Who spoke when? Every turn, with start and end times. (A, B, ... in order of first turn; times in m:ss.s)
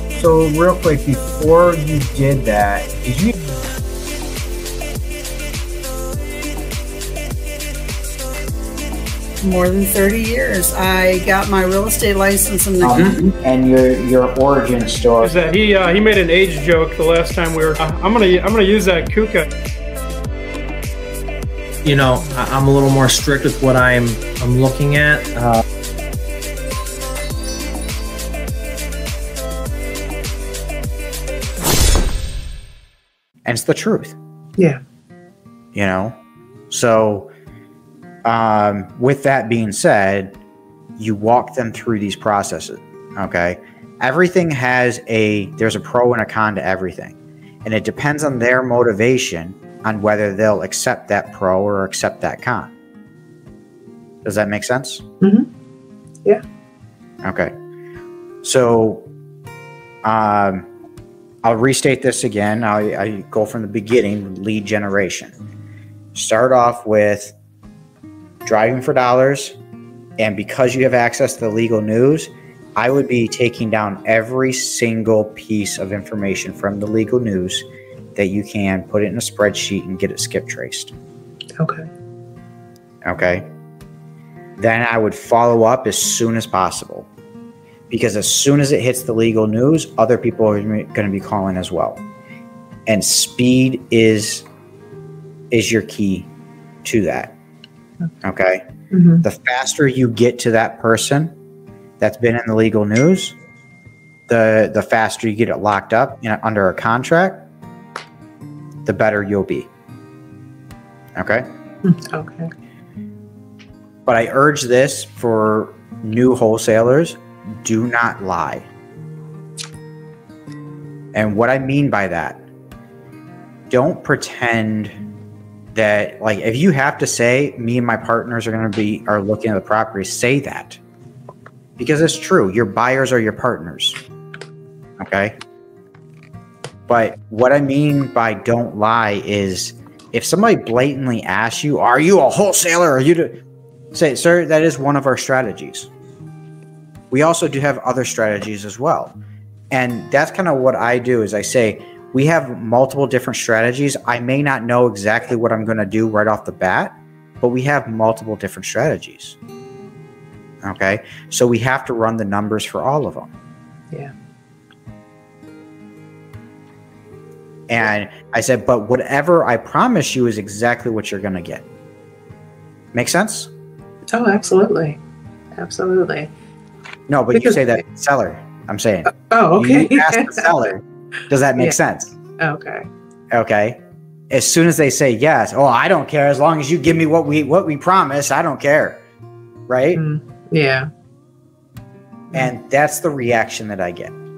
0:00.1-0:03.3 A
0:09.4-0:12.9 B
0:12.8-0:15.3 A
0:12.9-0:13.3 C
0:15.2-0:19.4 D
0:21.8-0:25.6 C
0:33.4-0:34.2 A
0:35.7-0:36.2 A
0:36.7-0:37.3 A
0:38.2-0:40.4 A
0:41.0-0:52.7 A
0:54.2-0:55.0 A
0:55.2-0:55.5 E
0:57.2-0:57.5 A
0:58.4-0:59.1 A
1:00.0-1:00.7 A
1:01.4-1:05.3 A
1:06.1-1:07.3 A
1:08.4-1:09.6 A
1:10.2-1:17.6 A
1:18.2-1:20.9 A
1:21.6-1:21.9 E
1:23.0-1:23.4 A
1:24.6-1:27.1 A
1:27.9-1:32.0 A
1:32.9-1:34.4 A
1:35.5-1:36.3 A
1:36.8-1:37.3 A
1:38.2-1:38.6 A
1:38.9-1:39.2 E
1:39.2-1:41.3 A
1:42.0-1:43.4 A
1:44.3-1:47.4 A
1:48.8-1:49.7 A
1:51.2-1:51.4 A
1:51.8-1:52.5 E
1:54.0-1:58.7 A
2:01.1-2:02.4 A
2:03.7-2:05.0 A
2:05.7-2:10.8 A
2:11.8-2:14.0 A
2:15.0-2:15.4 A
2:16.9-2:23.4 A
2:23.9-2:25.9 A
2:27.1-2:29.2 A
2:29.7-2:39.4 A
2:40.6-2:43.3 A
2:47.7-2:51.6 A
2:52.9-2:53.5 A
2:54.1-2:55.0 E
2:55.5-2:56.3 E
2:57.1-3:02.1 A
2:57.3-2:57.6 E
2:59.1-3:00.5 E
3:02.4-3:02.9 E
3:03.3-3:09.0 A
3:09.7-3:10.0 A
3:09.9-3:10.9 E
3:12.3-3:14.1 A